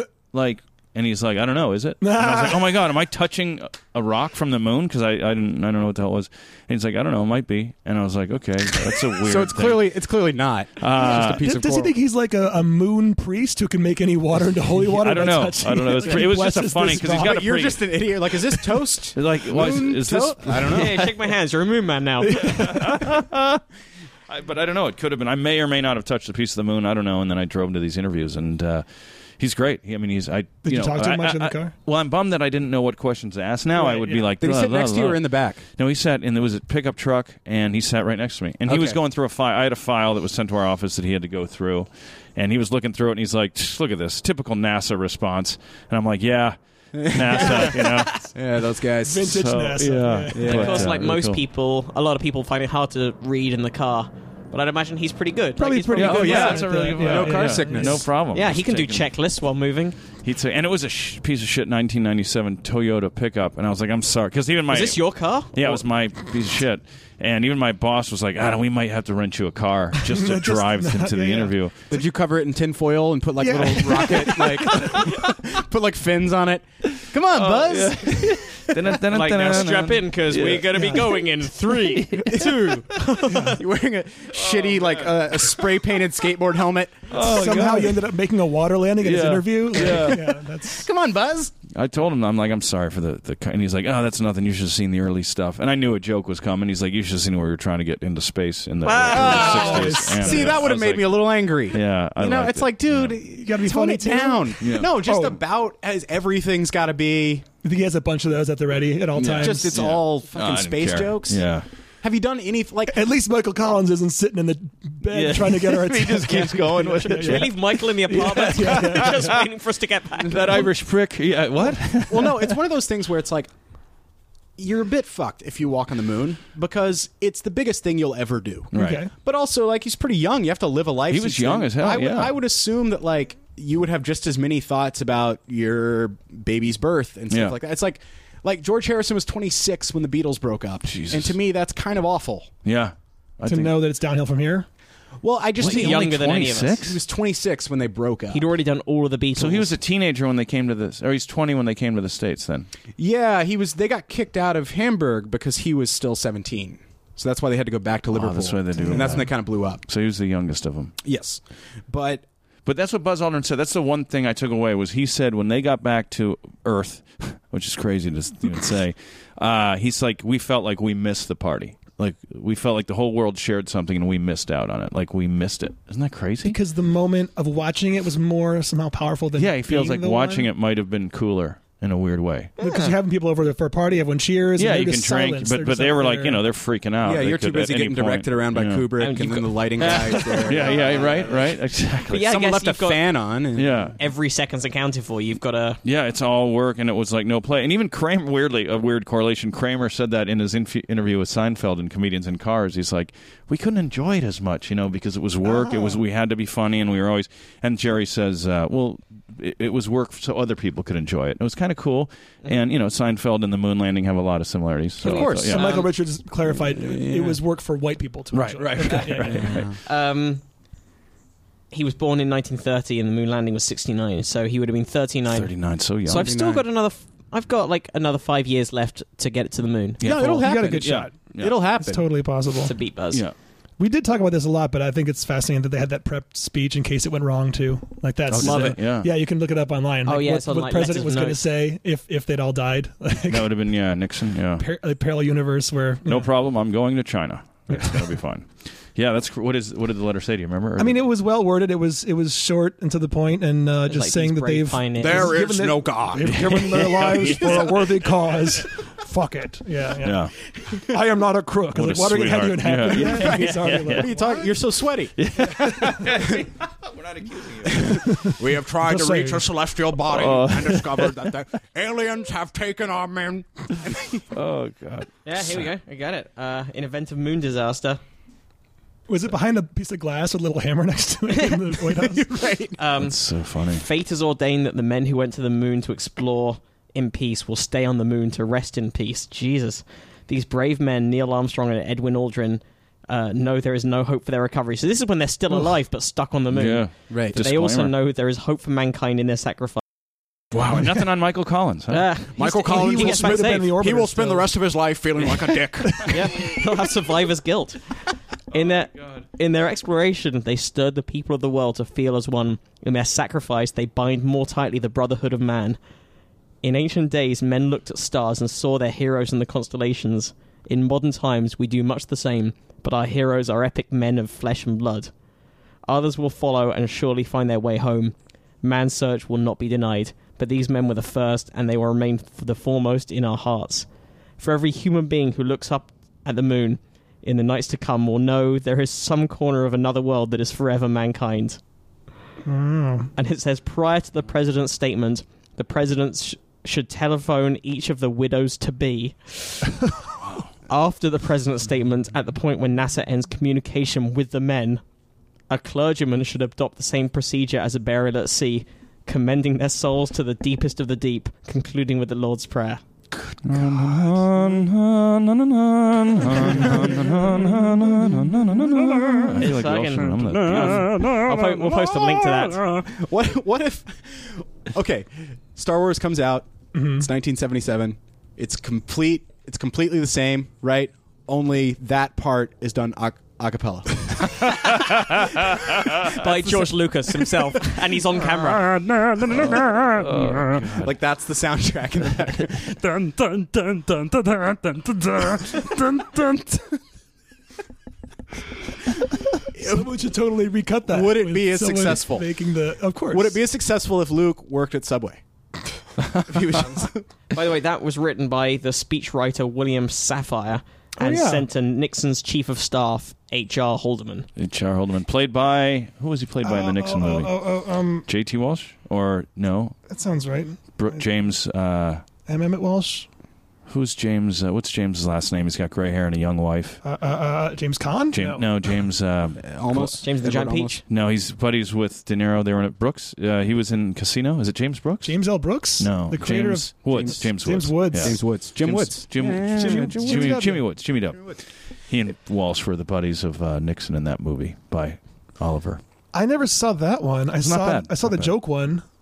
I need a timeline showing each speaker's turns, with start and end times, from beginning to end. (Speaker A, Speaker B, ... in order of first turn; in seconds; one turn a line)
Speaker A: 0.3-9.9
Speaker B: 2.0-2.7
Speaker C: 9.2-11.9
Speaker A: 10.8-11.4
Speaker B: 11.0-17.6
Speaker A: 14.9-17.8
Speaker C: 17.0-21.0
Speaker A: 19.1-21.1
Speaker D: 20.7-22.7
Speaker B: 22.2-23.2
Speaker A: 22.4-23.6
Speaker A: 24.3-28.9
Speaker A: 29.4-48.1
Speaker B: 30.6-31.7
Speaker B: 33.8-34.2
Speaker C: 34.4-35.6
Speaker C: 38.7-39.0
Speaker C: 46.9-49.4
Speaker D: 47.7-48.2
Speaker B: 49.0-50.8
Speaker A: 49.2-51.4
Speaker C: 50.3-50.9
Speaker D: 50.4-56.6
Speaker B: 55.6-58.0
Speaker A: 55.9-59.1
Speaker C: 56.0-58.1
Speaker D: 58.3-60.0
Speaker A: 60.2-71.8
Speaker D: 64.7-65.8
Speaker B: 70.0-71.5
Speaker C: 71.9-78.6
Speaker B: 73.4-75.1
Speaker A: 77.3-82.2
Speaker D: 79.0-83.6
Speaker B: 80.7-81.0
Speaker C: 82.1-87.3
Speaker B: 83.3-83.6
Speaker A: 84.4-85.1
Speaker A: 87.1-88.1
Speaker B: 87.2-90.9
Speaker A: 89.0-90.2
Speaker C: 89.7-91.5
Speaker A: 91.7-103.2
Speaker D: 98.8-100.0
Speaker C: 99.1-107.5
Speaker B: 99.2-100.5
Speaker B: 103.3-105.4
Speaker A: 104.6-104.9
Speaker B: 107.6-109.8
Speaker A: 109.2-111.7
Speaker C: 109.2-111.5
Speaker C: 112.0-113.0
Speaker B: 112.9-119.4
Speaker A: 115.1-117.5
Speaker D: 116.8-120.7
Speaker A: 118.5-119.4
Speaker A: 120.2-122.6
Speaker C: 122.1-123.5
Speaker C: 124.6-142.5
Speaker A: 128.7-129.0
Speaker B: 128.7-129.1
Speaker A: 131.1-132.3
Speaker A: 137.3-137.6
Speaker A: 140.9-141.4
Speaker A: 142.6-143.7
Speaker B: 143.4-144.7
Speaker C: 145.2-148.4
Speaker A: 145.6-147.0
Speaker D: 145.6-146.8
Speaker D: 148.3-149.7
Speaker A: 149.4-152.7
Speaker C: 153.0-159.8
Speaker A: 158.1-160.9
Speaker B: 158.9-159.2
Speaker C: 161.0-162.2
Speaker A: 162.6-176.6
Speaker B: 176.4-180.5
Speaker A: 179.4-182.5
Speaker D: 182.6-182.9
Speaker B: 182.6-186.4
Speaker A: 184.6-188.9
Speaker C: 187.0-191.4
Speaker D: 189.0-191.3
Speaker A: 189.8-192.3
Speaker D: 192.1-193.0
Speaker C: 192.2-193.8
Speaker A: 193.5-194.0
Speaker D: 194.0-195.8
Speaker A: 195.8-215.7
Speaker B: 205.7-205.9
Speaker C: 215.0-215.7
Speaker D: 215.0-215.9
Speaker B: 215.4-219.5
Speaker C: 216.6-217.4
Speaker A: 218.3-219.7
Speaker C: 218.6-219.7
Speaker D: 219.1-220.4
Speaker D: 221.7-225.5
Speaker A: 225.3-226.3
Speaker D: 226.0-230.0
Speaker C: 226.1-226.6
Speaker A: 230.0-231.6
Speaker C: 230.0-232.0
Speaker B: 230.2-231.1
Speaker B: 231.7-232.7
Speaker D: 232.6-233.2
Speaker B: 233.8-243.5
Speaker A: 238.3-239.1
Speaker D: 238.4-238.7
Speaker D: 240.1-241.4
Speaker A: 243.3-244.6
Speaker B: 244.6-246.3
Speaker A: 246.1-251.0
Speaker B: 247.7-248.1
Speaker B: 250.8-264.5
Speaker D: 253.8-255.4
Speaker C: 255.0-257.6
Speaker A: 256.2-258.5
Speaker A: 260.0-260.3
Speaker A: 261.7-264.1
Speaker C: 262.9-265.1
Speaker A: 265.2-268.1
Speaker B: 265.5-265.9
Speaker C: 267.6-274.2
Speaker B: 268.1-269.4
Speaker A: 270.1-271.2
Speaker A: 274.3-275.6
Speaker D: 275.2-278.0
Speaker B: 279.1-282.2
Speaker C: 281.8-282.8
Speaker D: 282.8-299.8
Speaker A: 283.0-283.8
Speaker A: 296.5-297.9
Speaker C: 297.1-297.4
Speaker A: 300.5-302.1
Speaker D: 301.9-303.6
Speaker C: 302.3-306.4
Speaker B: 302.4-304.5
Speaker B: 305.9-306.2
Speaker D: 306.1-307.9
Speaker D: 308.5-315.8
Speaker D: 316.6-325.1
Speaker D: 325.9-333.9
Speaker D: 334.4-341.6
Speaker B: 342.4-343.1
Speaker D: 343.1-349.7
Speaker D: 350.7-354.8
Speaker D: 355.5-362.8
Speaker A: 363.3-371.1
Speaker D: 369.4-372.8
Speaker C: 371.4-386.1
Speaker B: 376.7-377.1
Speaker D: 386.0-388.7
Speaker C: 388.5-396.8
Speaker A: 389.4-390.9
Speaker C: 399.6-399.9
Speaker B: 399.6-403.4
Speaker C: 400.9-402.3
Speaker C: 403.1-405.2
Speaker C: 406.2-407.1
Speaker D: 407.3-414.3
Speaker B: 411.0-411.4
Speaker A: 414.4-419.8
Speaker B: 416.4-418.1
Speaker B: 419.9-421.0
Speaker A: 420.8-422.0
Speaker B: 422.3-423.1
Speaker A: 423.7-426.8
Speaker B: 426.8-428.5
Speaker A: 428.1-430.0
Speaker C: 429.4-430.7
Speaker D: 430.0-430.8
Speaker A: 430.9-435.2
Speaker B: 435.0-438.2
Speaker A: 435.7-445.8
Speaker C: 436.9-437.2
Speaker C: 437.9-440.4
Speaker B: 439.5-440.6
Speaker B: 446.1-448.8
Speaker A: 447.4-448.3